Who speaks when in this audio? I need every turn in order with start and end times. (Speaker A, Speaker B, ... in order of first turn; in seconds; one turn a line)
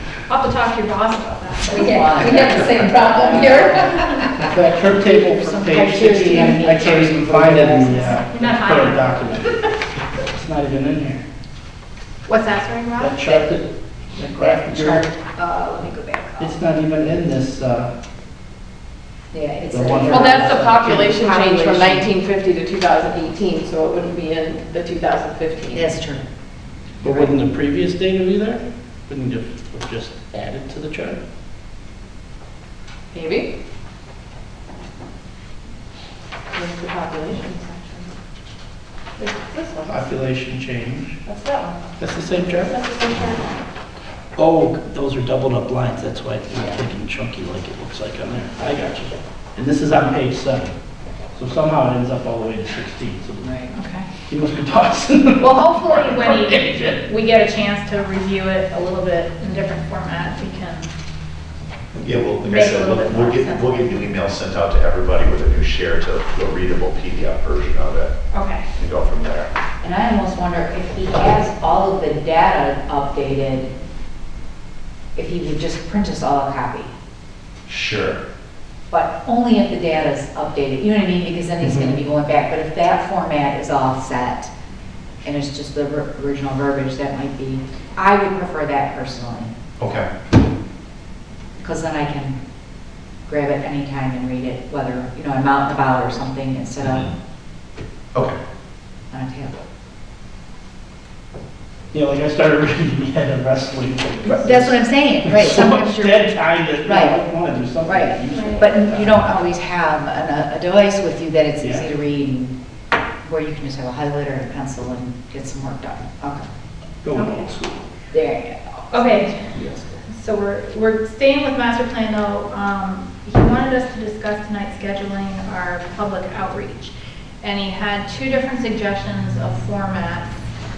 Speaker A: 0.3-2.4
Speaker B: 1.6-8.2
Speaker C: 1.7-4.3
Speaker D: 2.5-3.0
Speaker E: 4.3-9.6
Speaker C: 5.9-8.0
Speaker A: 8.0-9.7
Speaker E: 10.2-11.2
Speaker A: 12.2-13.2
Speaker E: 13.0-15.1
Speaker B: 14.4-16.6
Speaker E: 16.4-17.9
Speaker B: 19.3-22.1
Speaker E: 19.7-21.1
Speaker C: 20.1-25.9
Speaker B: 25.7-26.2
Speaker E: 27.0-31.2
Speaker B: 27.0-27.3
Speaker C: 33.1-33.5
Speaker C: 36.5-38.1
Speaker C: 39.2-40.0
Speaker E: 39.8-41.2
Speaker C: 41.2-41.9
Speaker E: 42.0-42.8
Speaker C: 42.5-43.6
Speaker E: 44.4-50.7
Speaker E: 51.3-53.6
Speaker B: 53.4-53.7
Speaker A: 53.7-54.1
Speaker E: 54.2-57.0
Speaker A: 55.4-60.9
Speaker D: 61.9-68.1
Speaker A: 62.4-64.1
Speaker A: 68.3-68.6
Speaker D: 68.7-69.5
Speaker B: 69.8-73.7
Speaker B: 75.1-76.9
Speaker D: 77.7-78.2
Speaker B: 78.9-84.5
Speaker B: 85.2-89.5
Speaker D: 89.8-90.1
Speaker B: 91.6-92.4
Speaker B: 93.2-97.1
Speaker D: 96.8-97.1
Speaker B: 99.1-99.6
Speaker E: 101.9-109.2
Speaker B: 104.2-106.3
Speaker B: 106.8-107.2
Speaker B: 107.8-112.5
Speaker A: 108.3-108.6
Speaker B: 113.2-116.5
Speaker E: 117.0-117.8
Speaker A: 117.1-117.5
Speaker B: 118.1-119.5
Speaker A: 118.9-119.5
Speaker E: 119.5-119.8
Speaker A: 120.1-130.3